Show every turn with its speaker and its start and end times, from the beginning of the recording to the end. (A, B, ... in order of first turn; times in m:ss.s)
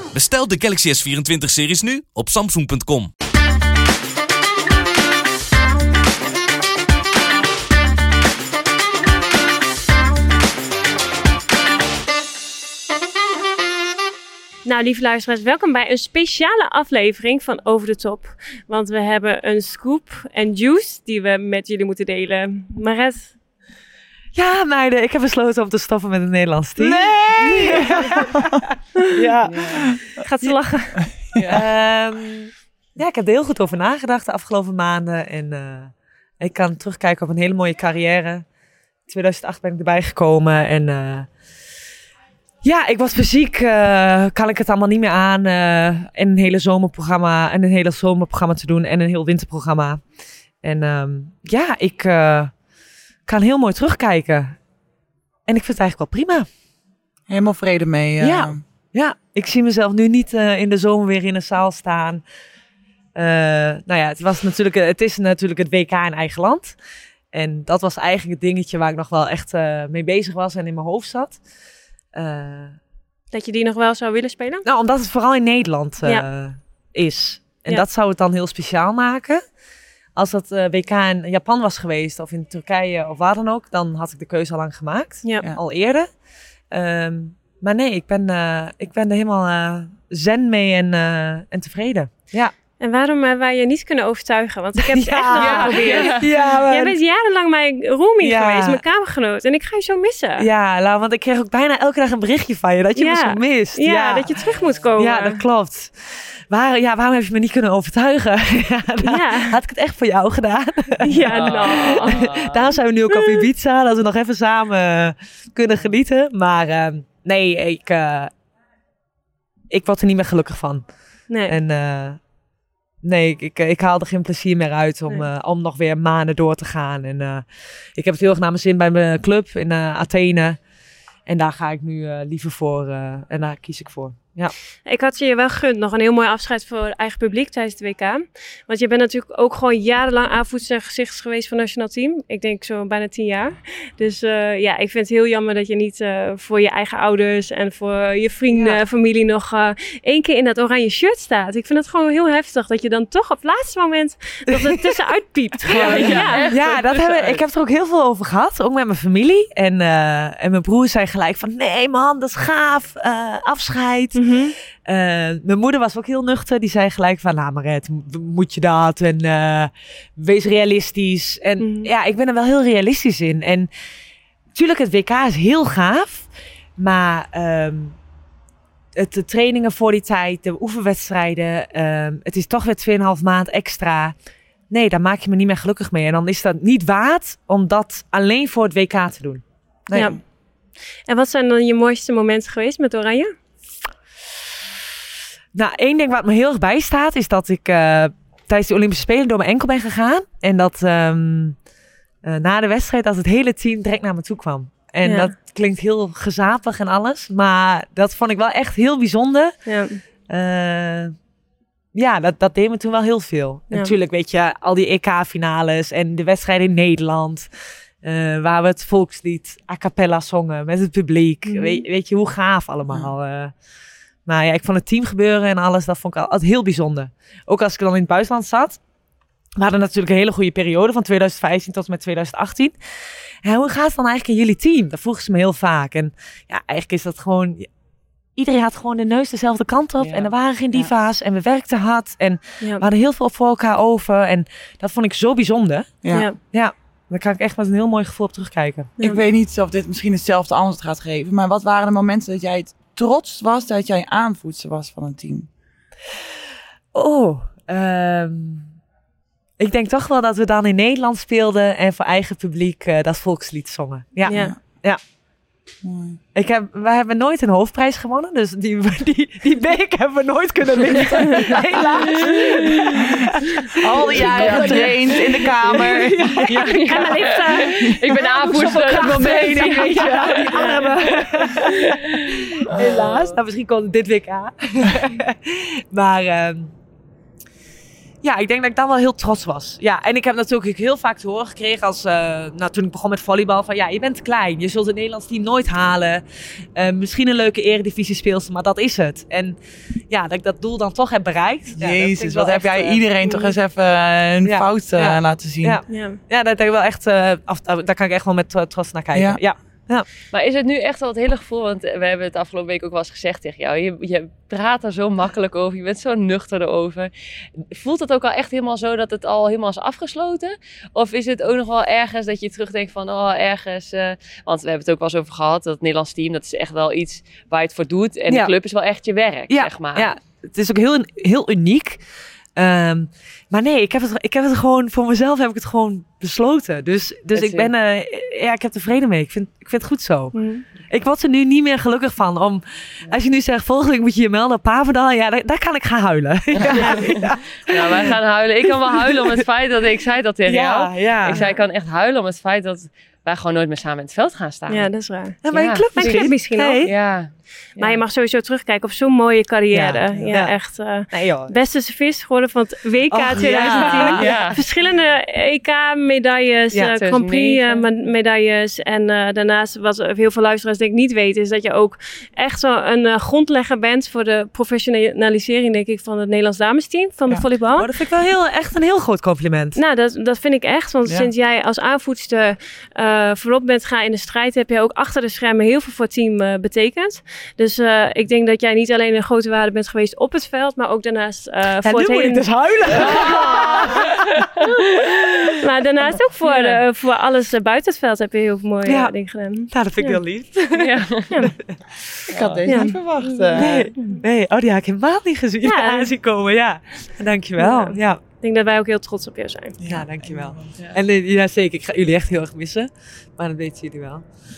0:00.1-0:03.1 A
0:14.6-0:23.4 B
0:24.4-0:30.6 C
0:26.8-0:28.2 D
0:29.4-0:29.8 E
0:30.1-0:31.2 B
0:31.3-0:31.6 E
0:31.5-0:38.4 C
0:39.1-0:41.3 C
0:42.6-0:50.0 C
0:50.6-0:52.5 C
0:53.3-0:54.6 C
0:55.5-0:56.5 C
0:57.3-0:58.6 D
0:58.2-1:02.2 C
1:03.2-1:06.8 C
1:07.3-1:11.4 C
1:12.2-1:12.8 C
1:13.3-1:14.7 B
1:14.6-1:19.4 C
1:16.0-1:16.3 B
1:20.2-1:26.1 C
1:25.2-1:25.5 B
1:26.7-1:32.5 C
1:32.8-1:40.5 B
1:34.8-1:37.0 C
1:35.3-1:36.5 E
1:38.2-1:38.8 C
1:40.4-1:44.3 C
1:43.0-1:45.4 B
1:44.5-1:44.8 E
1:45.0-1:58.3 C
1:49.0-1:49.6 B
1:51.0-1:52.3 B
1:51.3-1:52.6 E
1:59.7-2:00.8 C
2:01.3-2:01.6 B
2:01.4-2:02.2 C
2:03.0-2:07.4 C
2:08.0-2:10.6 C
2:11.3-2:14.5 C
2:14.9-2:36.6 B
2:28.5-2:28.8 C
2:35.7-2:37.4 E
2:35.7-2:53.7 C
2:44.1-2:44.6 B
2:51.6-2:51.9 B
2:54.5-2:58.0 C
2:59.0-3:04.2 C
3:04.7-3:10.2 C
3:09.9-3:10.2 B
3:11.1-3:13.3 B
3:15.5-3:21.6 C
3:22.2-3:29.6 C
3:25.0-3:25.3 B
3:29.7-3:30.0 B
3:30.3-3:31.1 C
3:32.0-3:37.5 C
3:38.0-3:43.5 C
3:41.4-3:41.8 B
3:44.3-3:48.8 C
3:49.6-3:52.8 C
3:53.4-3:57.7 C
3:58.4-4:09.0 C
4:00.0-4:00.3 E
4:02.6-4:02.9 B
4:06.1-4:06.4 B
4:09.0-4:15.5 D
4:16.9-4:18.7 C
4:19.6-4:25.0 C
4:24.3-4:24.6 B
4:24.3-4:24.6 D
4:25.8-4:26.2 D
4:26.3-4:35.5 C
4:31.1-4:31.6 B
4:32.2-4:32.6 E
4:33.8-4:36.5 D
4:34.1-4:42.1 E
4:36.2-4:36.8 C
4:36.6-4:38.8 B
4:38.3-4:46.7 C
4:39.5-4:40.9 B
4:42.7-4:43.3 E
4:48.2-4:59.6 C
5:00.1-5:03.1 C
5:01.8-5:05.8 D
5:03.2-5:03.5 B
5:04.4-5:10.1 C
5:05.9-5:06.2 B
5:09.1-5:09.4 D
5:10.3-5:30.1 E
5:28.3-5:28.5 C
5:29.5-5:32.0 C
5:32.6-5:47.9 C
5:37.3-5:37.7 E
5:40.3-5:40.7 B
5:46.7-5:47.1 E
5:47.6-5:54.9 E
5:50.5-5:51.5 C
5:54.7-5:56.9 B
5:55.4-5:56.9 C
5:55.5-5:56.3 E
5:56.8-5:58.0 E
5:57.8-6:17.9 B
5:59.7-6:01.6 C
6:03.1-6:04.4 C
6:03.4-6:04.5 D
6:04.2-6:04.6 E
6:06.9-6:07.8 E
6:17.8-6:19.8 C
6:19.8-6:33.7 B
6:31.8-6:34.1 C
6:33.4-6:34.0 E
6:35.6-6:40.2 B
6:36.4-6:36.8 E
6:38.8-6:40.9 C
6:40.7-6:41.6 B
6:41.6-6:42.0 C
6:42.3-6:42.6 E
6:42.3-6:43.9 D
6:42.7-6:44.2 B
6:43.5-6:48.2 C
6:45.6-6:46.2 B
6:47.6-6:49.8 B
6:49.8-6:50.8 D
6:49.8-6:54.2 C